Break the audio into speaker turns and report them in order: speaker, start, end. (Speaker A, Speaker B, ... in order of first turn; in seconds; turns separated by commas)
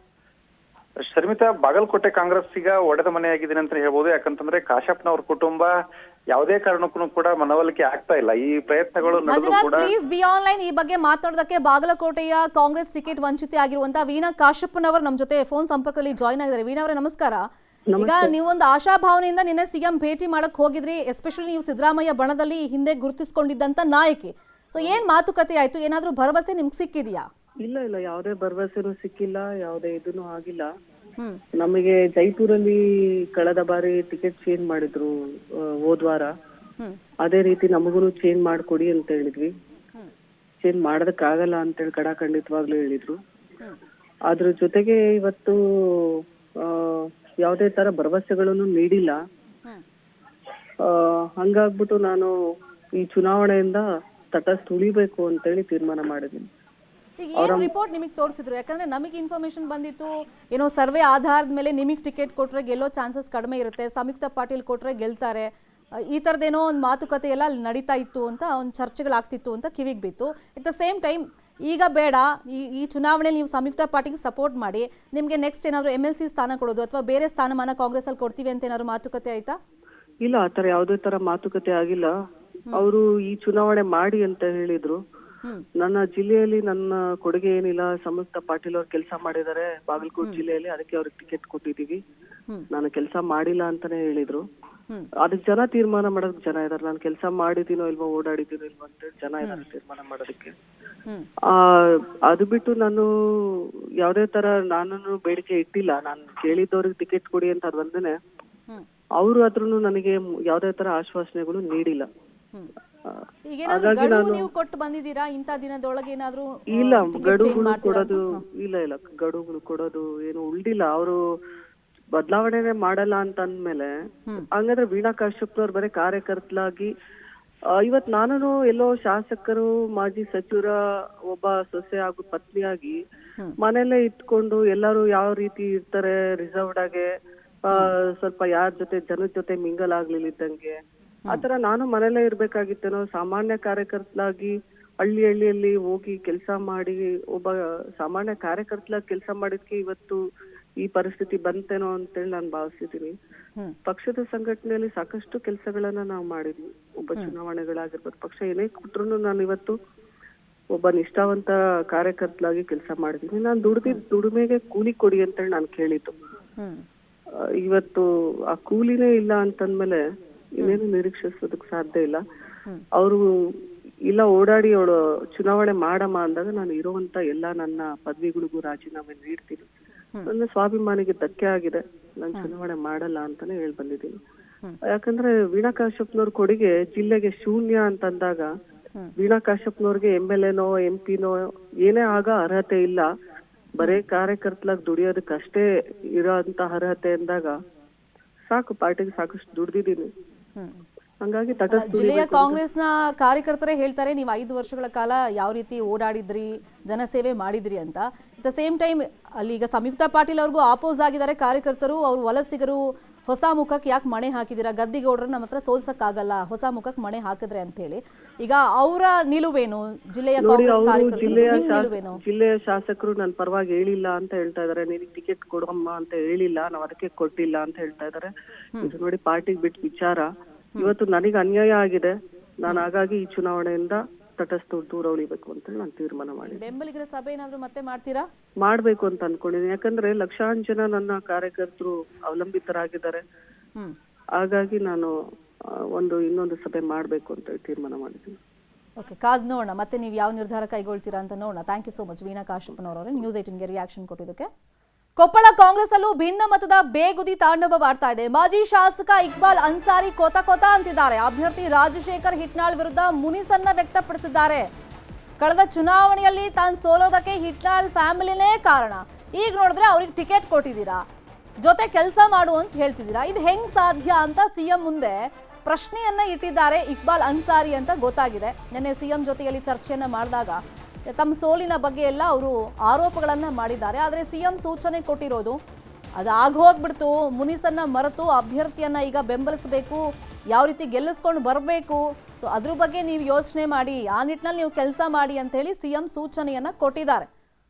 Speaker A: 1.0-5.8, Speaker A: 6.3-9.9, Speaker B: 9.3-17.4, Speaker C: 17.9-18.3, Speaker B: 18.0-27.2, Speaker C: 27.6-30.7, Speaker C: 31.6-32.8, Speaker C: 33.3-36.3, Speaker C: 37.2-39.5, Speaker C: 40.6-43.2, Speaker C: 44.3-49.2, Speaker C: 50.8-52.3, Speaker C: 53.0-56.4, Speaker B: 57.2-65.5, Speaker C: 57.4-57.7, Speaker B: 66.0-79.6, Speaker C: 80.2-82.1, Speaker C: 82.7-85.0, Speaker C: 85.8-92.0, Speaker C: 92.7-94.4, Speaker C: 95.2-100.5, Speaker C: 101.5-108.2, Speaker C: 109.2-112.1, Speaker C: 113.1-114.5, Speaker B: 113.5-118.4, Speaker C: 116.7-121.2, Speaker C: 122.1-123.9, Speaker C: 124.5-126.9, Speaker C: 127.8-130.8, Speaker C: 131.3-133.0, Speaker C: 133.6-137.1, Speaker C: 137.7-150.2, Speaker C: 150.8-153.1, Speaker C: 153.8-159.7, Speaker C: 160.7-166.1, Speaker C: 167.6-170.0, Speaker C: 170.6-172.2, Speaker C: 173.0-173.2, Speaker C: 174.1-179.7, Speaker C: 180.2-184.1, Speaker C: 184.9-188.5, Speaker C: 189.2-193.1, Speaker C: 193.8-197.6, Speaker C: 198.5-200.1, Speaker B: 200.6-200.8, Speaker C: 201.2-202.6, Speaker B: 201.7-222.2, Speaker C: 220.4-236.6, Speaker B: 236.4-238.3, Speaker C: 238.6-243.2, Speaker C: 244.4-245.1, Speaker C: 245.9-248.4, Speaker B: 249.0-254.5, Speaker B: 255.2-264.7, Speaker B: 265.4-271.0, Speaker B: 271.6-285.6, Speaker B: 286.2-297.3